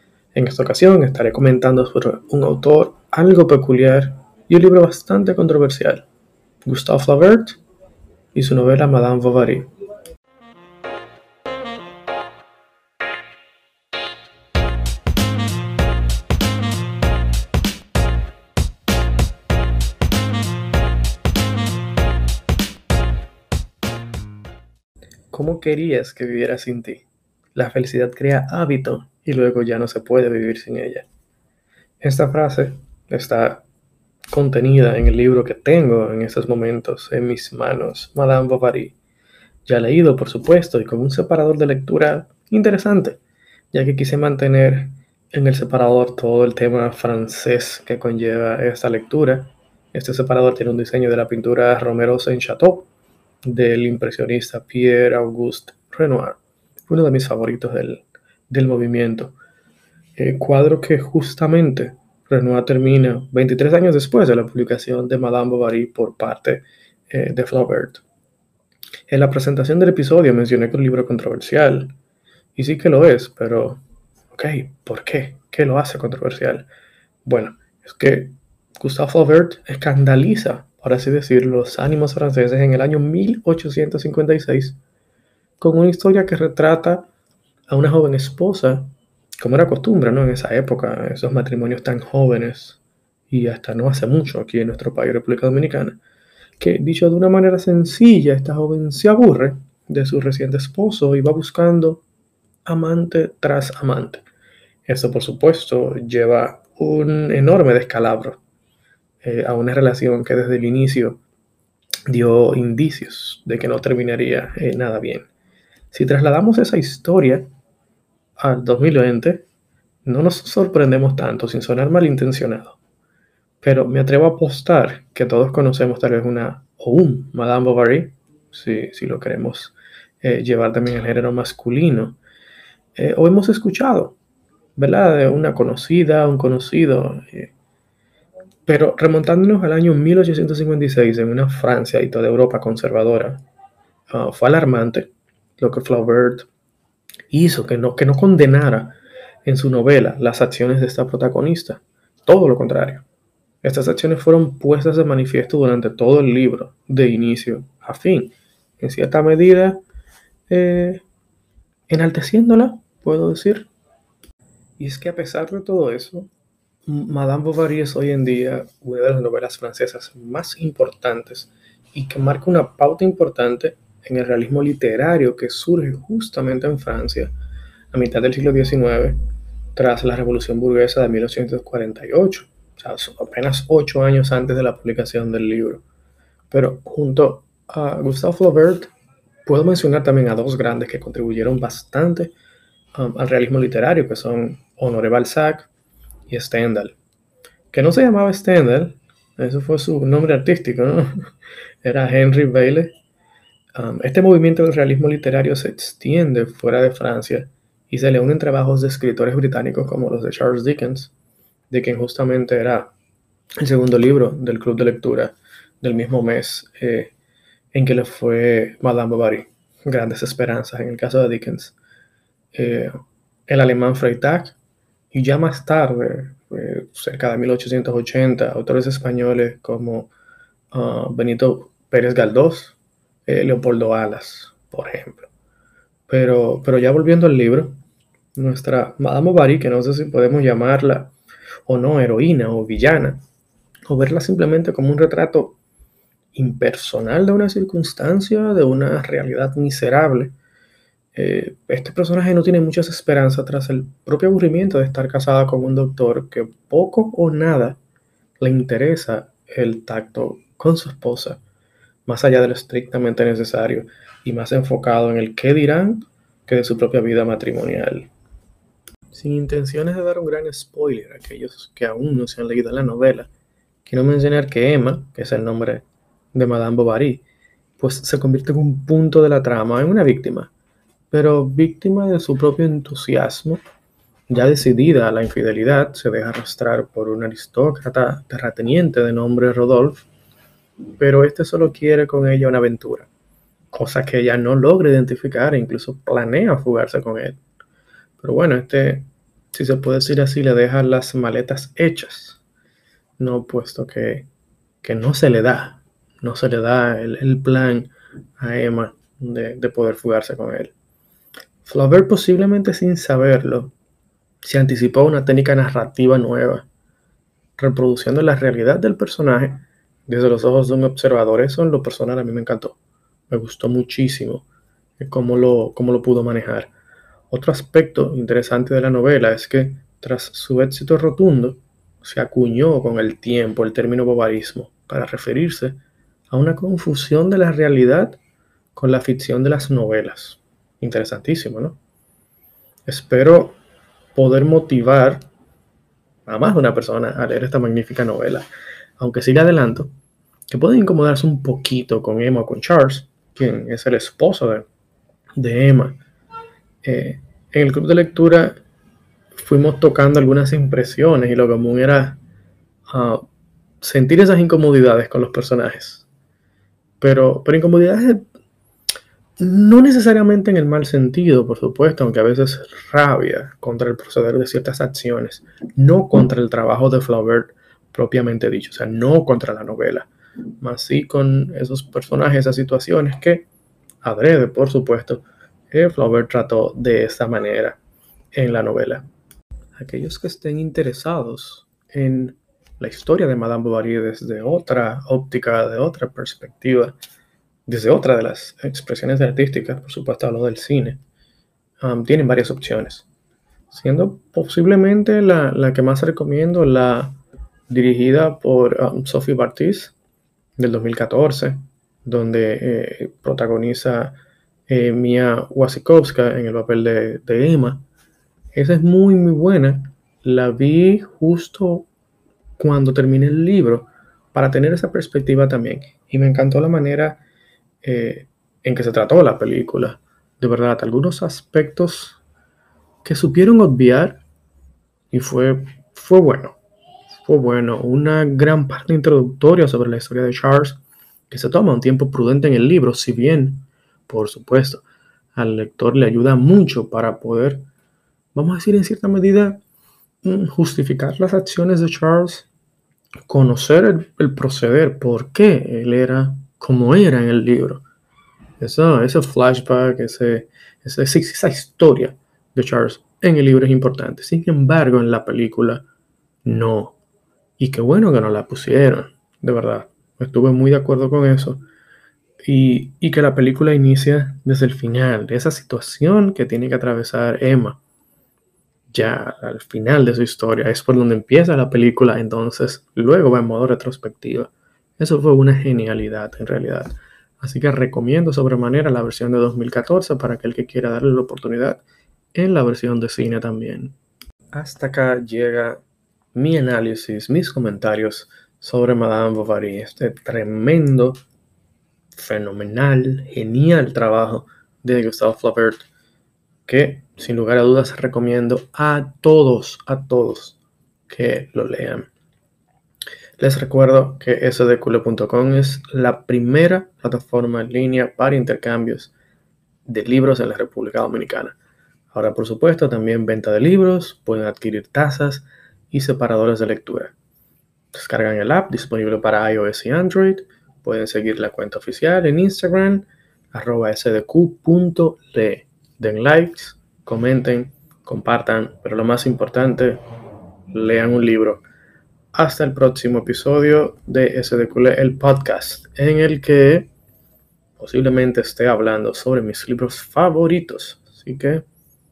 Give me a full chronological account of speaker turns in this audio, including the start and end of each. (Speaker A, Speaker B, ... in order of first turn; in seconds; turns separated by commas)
Speaker A: 0.3-6.0, Speaker A: 6.6-7.6, Speaker A: 8.3-9.7, Speaker A: 25.3-31.1, Speaker A: 32.0-33.6, Speaker A: 34.3-39.0, Speaker A: 39.6-43.2, Speaker A: 43.7-52.9, Speaker A: 53.4-59.3, Speaker A: 60.1-68.0, Speaker A: 69.1-72.0, Speaker A: 72.5-76.7, Speaker A: 77.2-84.8, Speaker A: 85.6-87.1, Speaker A: 87.7-96.0, Speaker A: 96.6-102.0, Speaker A: 102.7-104.2, Speaker A: 104.8-108.4, Speaker A: 109.2-111.2, Speaker A: 112.1-115.3, Speaker A: 115.9-117.5, Speaker A: 118.4-119.5, Speaker A: 120.0-122.8, Speaker A: 123.6-132.2, Speaker A: 132.9-134.2, Speaker A: 134.8-137.5, Speaker A: 138.7-143.4, Speaker A: 144.1-146.5, Speaker A: 147.3-153.1, Speaker A: 153.6-159.8, Speaker A: 160.5-161.0, Speaker A: 161.9-163.7, Speaker A: 164.8-166.3, Speaker A: 166.9-177.3, Speaker A: 177.9-179.2, Speaker A: 179.7-185.8, Speaker A: 186.5-188.9, Speaker A: 189.4-192.3, Speaker A: 192.9-195.7, Speaker A: 196.3-197.0, Speaker A: 197.7-201.3, Speaker A: 201.8-202.9, Speaker A: 203.7-211.1, Speaker A: 211.7-212.9, Speaker A: 213.6-217.1, Speaker A: 217.7-221.7, Speaker A: 222.5-222.9, Speaker A: 223.5-224.6, Speaker A: 225.1-230.1, Speaker A: 230.7-235.3, Speaker A: 236.1-237.8, Speaker A: 238.3-241.1, Speaker A: 241.7-243.2, Speaker A: 243.9-245.6, Speaker A: 246.3-250.3, Speaker A: 251.1-257.8, Speaker A: 258.4-261.4, Speaker A: 262.1-268.1, Speaker A: 269.1-273.3, Speaker A: 273.8-277.2, Speaker A: 277.8-280.5, Speaker A: 281.1-283.6, Speaker A: 284.3-290.1, Speaker A: 291.0-293.1, Speaker A: 293.7-297.4, Speaker A: 298.2-302.4, Speaker A: 303.2-304.3, Speaker A: 304.8-310.7, Speaker A: 311.6-313.7, Speaker A: 314.4-316.7, Speaker A: 317.6-322.8, Speaker A: 323.3-324.4, Speaker A: 325.0-326.7, Speaker A: 327.3-338.2, Speaker A: 338.7-341.8, Speaker A: 342.9-343.6, Speaker A: 344.1-345.2, Speaker A: 346.2-349.9, Speaker A: 350.5-354.7, Speaker A: 355.4-356.0, Speaker A: 356.8-358.6, Speaker A: 359.3-362.2, Speaker A: 362.9-363.2, Speaker A: 363.8-366.1, Speaker A: 367.0-368.2, Speaker A: 369.4-380.1, Speaker A: 380.6-383.5, Speaker A: 384.0-387.8, Speaker A: 388.3-389.1, Speaker A: 389.8-396.9, Speaker A: 397.7-401.0, Speaker A: 401.8-403.1, Speaker A: 403.7-407.2, Speaker A: 407.7-409.9, Speaker A: 410.6-417.9, Speaker A: 418.5-421.9, Speaker A: 422.6-427.2, Speaker A: 427.8-432.2, Speaker A: 433.0-434.2, Speaker A: 435.1-436.6, Speaker A: 437.1-444.8, Speaker A: 445.3-447.6, Speaker A: 448.3-449.6, Speaker A: 450.2-452.5, Speaker A: 453.3-457.8, Speaker A: 458.6-465.8, Speaker A: 466.4-467.0, Speaker A: 467.6-471.6, Speaker A: 472.4-477.8, Speaker A: 478.9-493.9, Speaker A: 494.5-495.8, Speaker A: 496.3-501.2, Speaker A: 502.1-505.9, Speaker A: 506.6-512.1, Speaker A: 513.4-519.1, Speaker A: 519.9-521.6, Speaker A: 522.1-527.1, Speaker A: 527.9-540.0, Speaker A: 540.7-541.6, Speaker A: 542.3-546.9, Speaker A: 547.8-551.6